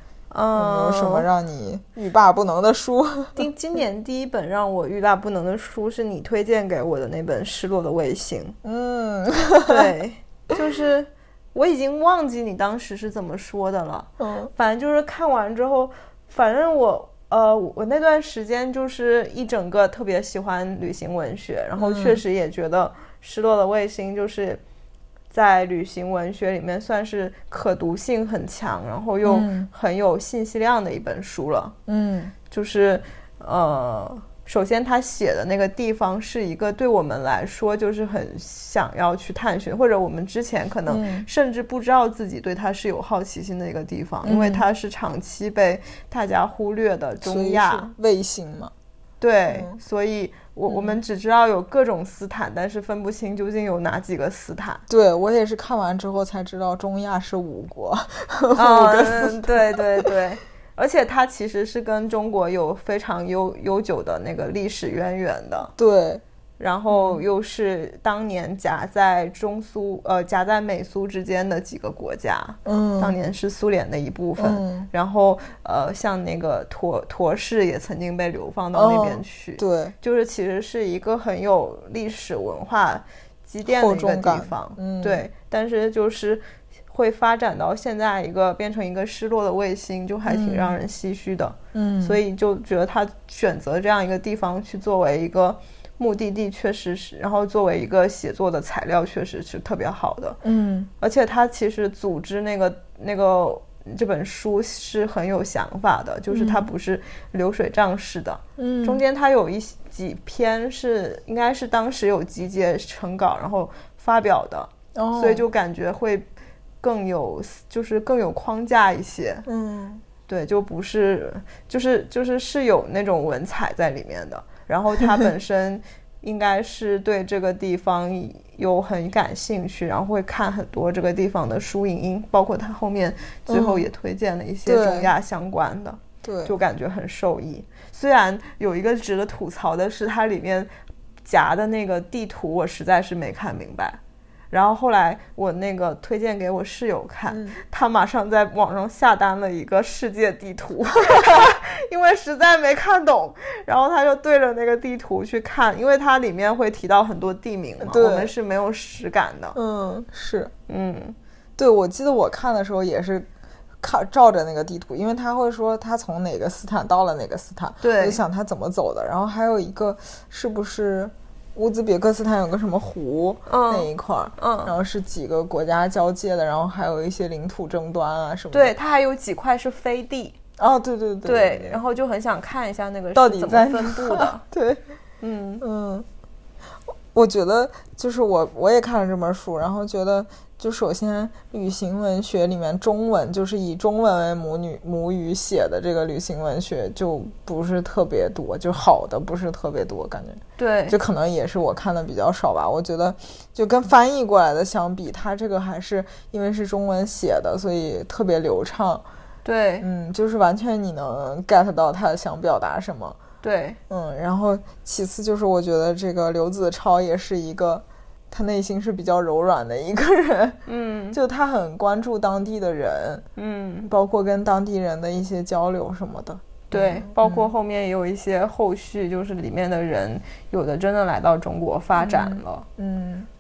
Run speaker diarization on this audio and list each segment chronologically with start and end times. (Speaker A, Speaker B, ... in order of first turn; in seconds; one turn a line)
Speaker A: 0.3-1.3
Speaker B: 0.6-3.5
Speaker A: 3.4-8.6
Speaker B: 8.6-9.9
Speaker A: 9.7-24.6
Speaker B: 14.2-14.5
Speaker B: 21.8-22.2
Speaker A: 25.3-31.8
Speaker B: 29.2-29.7
Speaker B: 31.9-32.3
Speaker A: 32.5-47.9
Speaker B: 40.9-41.3
Speaker B: 44.2-44.6
Speaker B: 47.2-48.7
Speaker A: 49.2-54.8
Speaker B: 49.5-49.8
Speaker B: 50.7-51.0
Speaker B: 54.9-60.1
Speaker A: 58.5-65.7
Speaker B: 65.8-66.2
Speaker A: 66.6-100.4
Speaker B: 66.9-67.2
Speaker B: 72.6-73.1
Speaker B: 74.4-74.9
Speaker B: 78.7-79.9
Speaker B: 83.7-85.3
Speaker B: 90.3-90.8
Speaker B: 91.7-92.2
Speaker B: 100.4-100.9
Speaker A: 101.0-116.3
Speaker B: 106.3-106.7
Speaker B: 108.6-109.0
Speaker B: 114.9-115.4
Speaker A: 116.8-119.5
Speaker B: 119.5-120.0
Speaker A: 120.3-140.7
Speaker B: 133.5-133.9
Speaker B: 134.7-135.1
Speaker B: 136.2-136.5
Speaker A: 141.2-144.0
Speaker A: 144.5-159.6
Speaker B: 147.3-147.6
Speaker B: 157.8-158.3
Speaker B: 159.6-160.5
Speaker A: 160.7-161.2
Speaker B: 161.6-163.3
Speaker B: 163.8-178.7
Speaker A: 167.8-168.2
Speaker A: 173.5-174.7
Speaker A: 178.5-180.4
Speaker B: 180.6-181.8
Speaker A: 181.2-184.4
Speaker B: 183.1-184.8
Speaker A: 185.2-185.6
Speaker B: 185.6-186.1
Speaker B: 187.1-209.0
Speaker A: 200.6-201.0
Speaker A: 209.4-209.9
Speaker B: 209.8-213.2
Speaker A: 213.4-213.8
Speaker B: 213.9-220.6
Speaker A: 220.7-221.2
Speaker B: 221.1-223.2
Speaker A: 223.4-223.9
Speaker B: 223.9-227.5
Speaker A: 226.7-232.7
Speaker B: 232.0-233.3